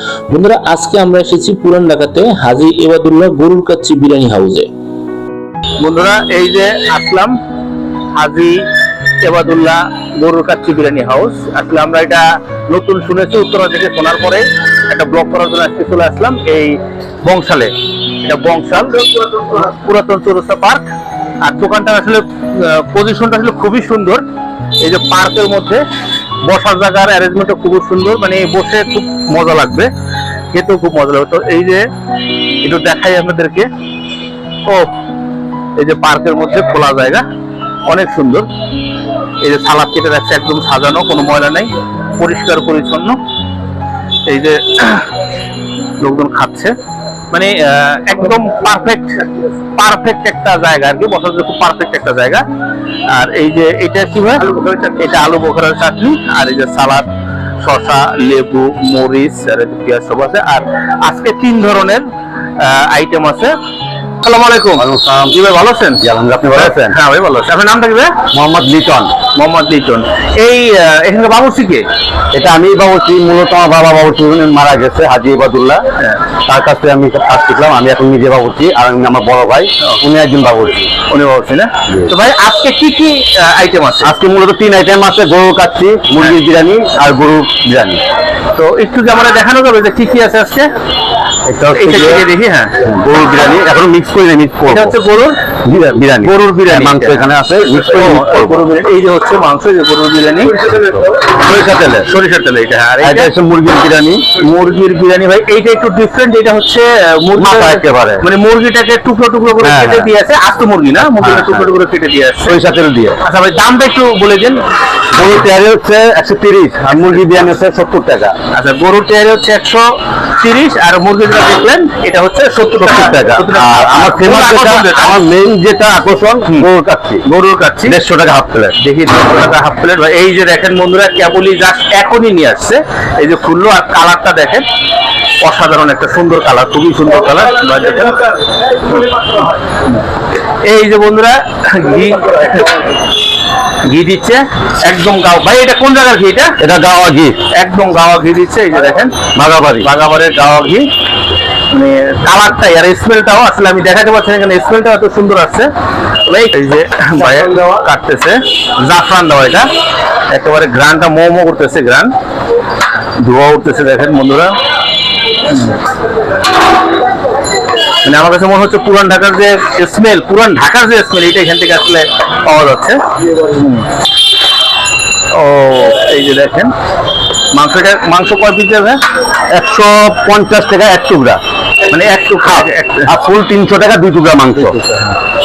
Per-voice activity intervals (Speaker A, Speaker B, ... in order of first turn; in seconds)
Speaker A: 0.3-4.7
Speaker B: 5.8-7.4, 8.2-8.7, 9.2-20.8, 21.4-24.2, 24.8-25.8, 26.4-29.9, 30.5-31.8, 32.6-33.7, 34.7-34.9, 35.8-37.2, 37.9-38.5, 39.4-43.2, 44.3-45.1, 46.0-46.8, 47.3-49.3, 49.8-52.4, 53.1-57.1, 57.6-63.5, 64.2-68.1, 69.3-71.8, 76.0-76.3, 81.1-84.1, 88.5-90.7, 91.7-92.8, 94.7-95.4, 96.2-100.6, 102.1-103.3, 104.4-112.6, 113.2-114.6, 116.9-117.5, 118.5-125.2, 127.3-128.0, 128.8-134.7, 135.4-139.4, 140.6-142.9, 143.8-146.5, 147.5-149.3, 149.8-150.9, 151.7-155.7, 156.2-159.7, 160.3-162.1, 163.2-164.6, 165.5-165.8, 168.0-173.9, 175.3-176.7, 177.5-179.0, 181.9-183.1, 184.6-185.1
Speaker C: 64.8-65.3, 66.0-67.0, 68.3-69.1, 72.3-75.8, 76.4-80.9, 84.0-88.0, 91.5-92.2, 92.8-95.0, 95.6-98.6, 100.6-102.1, 103.0-104.3, 107.4-108.2, 109.6-110.1, 111.0-111.7, 112.5-113.2, 115.1-118.3, 122.8-127.2, 127.9-128.8, 146.6-147.4, 149.3-149.9, 179.5-181.4, 183.1-184.8